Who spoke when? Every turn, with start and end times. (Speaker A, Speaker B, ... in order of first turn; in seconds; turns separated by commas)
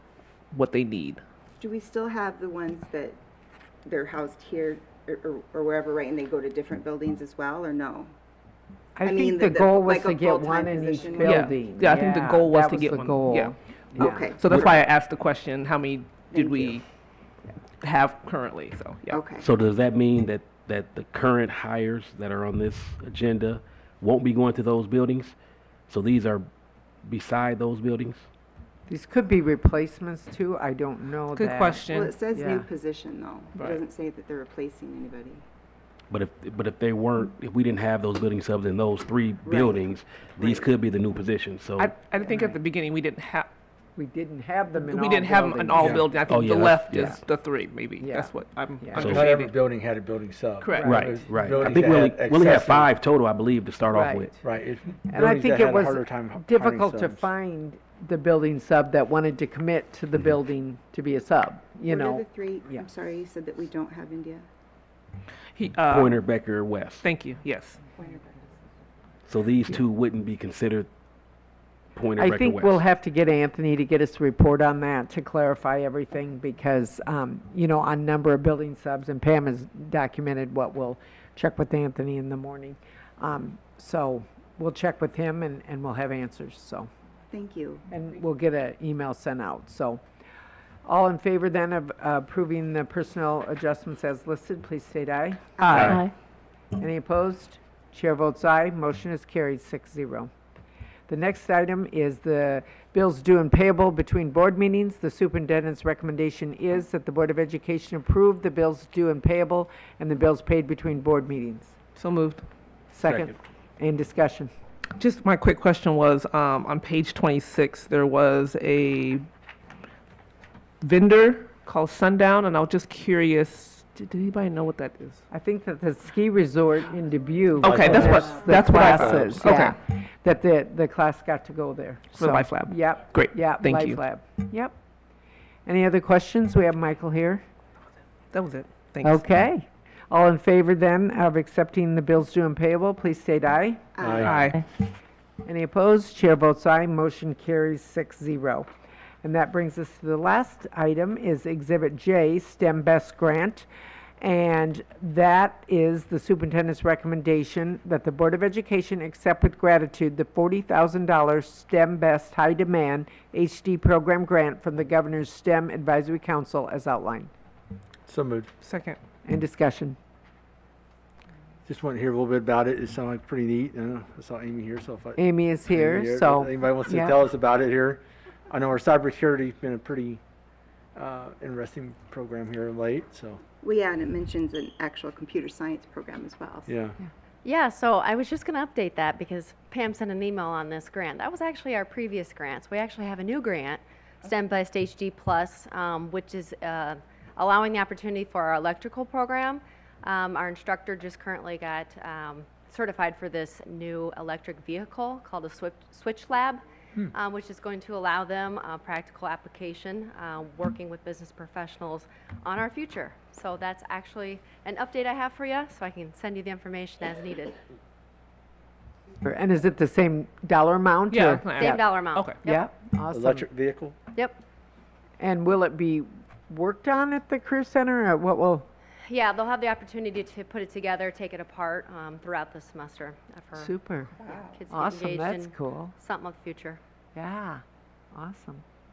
Speaker A: 0.5-1.2, Speaker B: 1.6-3.2, Speaker B: 3.8-8.1, Speaker C: 8.9-14.7, Speaker B: 9.0-11.5, Speaker A: 11.2-16.8, Speaker B: 14.0-14.7, Speaker B: 16.3-16.8, Speaker A: 17.8-19.2, Speaker B: 19.1-19.5, Speaker D: 19.4-25.4, Speaker D: 25.9-26.5, Speaker D: 27.0-28.2, Speaker C: 28.9-32.7, Speaker A: 31.3-32.1, Speaker B: 31.9-35.5, Speaker A: 33.5-33.8, Speaker D: 36.1-42.0, Speaker B: 39.4-40.7, Speaker A: 41.8-43.5, Speaker C: 44.0-46.1, Speaker A: 44.8-49.5, Speaker E: 45.8-46.1, Speaker D: 46.2-47.1, Speaker C: 48.0-49.1, Speaker D: 48.9-49.3, Speaker E: 49.0-52.9, Speaker A: 50.6-51.0, Speaker C: 50.7-51.4, Speaker D: 50.8-54.3, Speaker C: 53.9-54.3, Speaker E: 54.4-57.3, Speaker C: 55.1-62.9, Speaker B: 61.9-64.5, Speaker A: 65.5-66.2, Speaker D: 65.8-67.0, Speaker A: 67.0-67.8, Speaker B: 68.0-68.6, Speaker D: 69.3-70.9, Speaker D: 71.9-72.8, Speaker C: 72.2-86.9, Speaker B: 87.3-87.8, Speaker C: 87.9-90.0, Speaker C: 90.8-96.1, Speaker A: 95.7-96.0, Speaker C: 96.8-100.3, Speaker C: 101.1-111.8, Speaker A: 112.0-112.5, Speaker C: 112.9-114.5, Speaker A: 115.0-119.3, Speaker A: 120.8-125.2, Speaker C: 125.3-134.7, Speaker E: 127.6-129.3, Speaker A: 127.6-129.8, Speaker A: 132.1-134.0, Speaker C: 135.7-137.4, Speaker A: 138.3-139.2, Speaker C: 139.0-143.9, Speaker B: 144.0-144.4, Speaker E: 144.0-144.4, Speaker A: 144.2-144.6, Speaker C: 145.4-148.7, Speaker C: 149.2-153.7, Speaker C: 154.2-167.3, Speaker E: 168.1-168.5, Speaker A: 168.6-169.0, Speaker C: 169.2-169.9, Speaker E: 171.6-180.2, Speaker C: 175.2-177.2, Speaker E: 180.9-183.4, Speaker B: 183.6-186.7, Speaker E: 186.7-187.0, Speaker F: 187.4-206.6, Speaker F: 207.1-217.6, Speaker C: 219.2-221.8, Speaker A: 221.1-222.4, Speaker F: 221.6-222.7, Speaker C: 222.4-223.4, Speaker E: 223.1-223.9, Speaker C: 225.2-228.7, Speaker F: 229.0-236.8, Speaker C: 233.6-234.1, Speaker B: 234.2-234.6, Speaker C: 234.7-235.9, Speaker C: 237.1-237.6, Speaker C: 238.1-238.6